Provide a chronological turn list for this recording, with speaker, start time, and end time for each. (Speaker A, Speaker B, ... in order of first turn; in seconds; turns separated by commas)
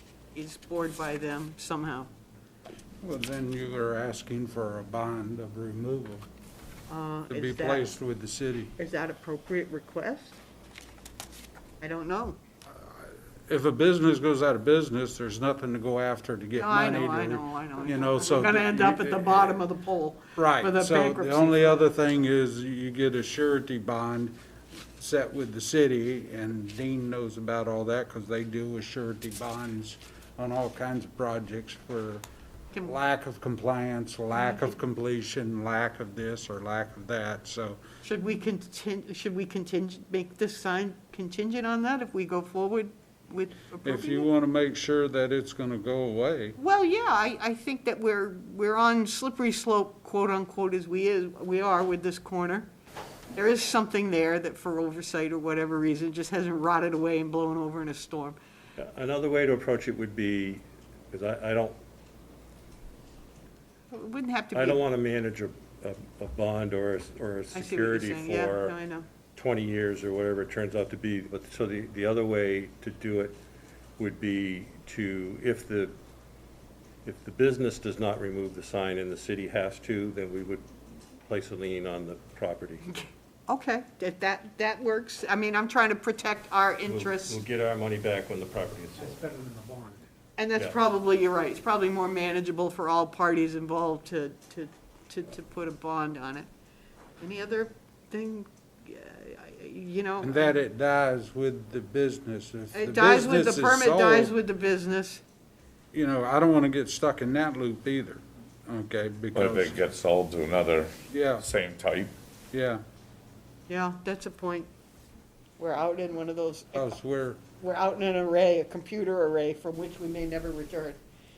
Speaker A: 0.3-2.1, Speaker B: 3.0-6.3, Speaker A: 6.9-7.9, Speaker B: 7.3-8.8, Speaker A: 8.8-10.4, Speaker A: 11.8-12.4, Speaker B: 12.7-19.6, Speaker A: 16.6-21.9, Speaker B: 20.4-24.4, Speaker B: 25.0-32.2, Speaker B: 32.8-37.8, Speaker A: 34.3-34.7, Speaker A: 38.0-44.3, Speaker B: 43.9-46.6, Speaker A: 46.6-52.7, Speaker A: 53.4-58.4, Speaker C: 58.8-61.8, Speaker A: 63.9-64.8, Speaker C: 64.5-68.7, Speaker A: 67.5-69.1, Speaker C: 69.3-73.4, Speaker C: 74.0-76.0, Speaker C: 77.0-80.7, Speaker C: 81.3-82.9, Speaker A: 83.5-87.4, Speaker C: 86.9-89.2, Speaker B: 89.2-90.0, Speaker A: 90.4-96.5, Speaker A: 97.2-100.5, Speaker B: 100.2-104.3, Speaker A: 102.7-105.2, Speaker B: 105.9-109.8, Speaker D: 109.3-112.1, Speaker B: 111.1-111.5, Speaker B: 112.5-112.8, Speaker A: 113.7-114.7, Speaker A: 115.6-117.0, Speaker B: 116.8-117.4, Speaker A: 117.6-121.0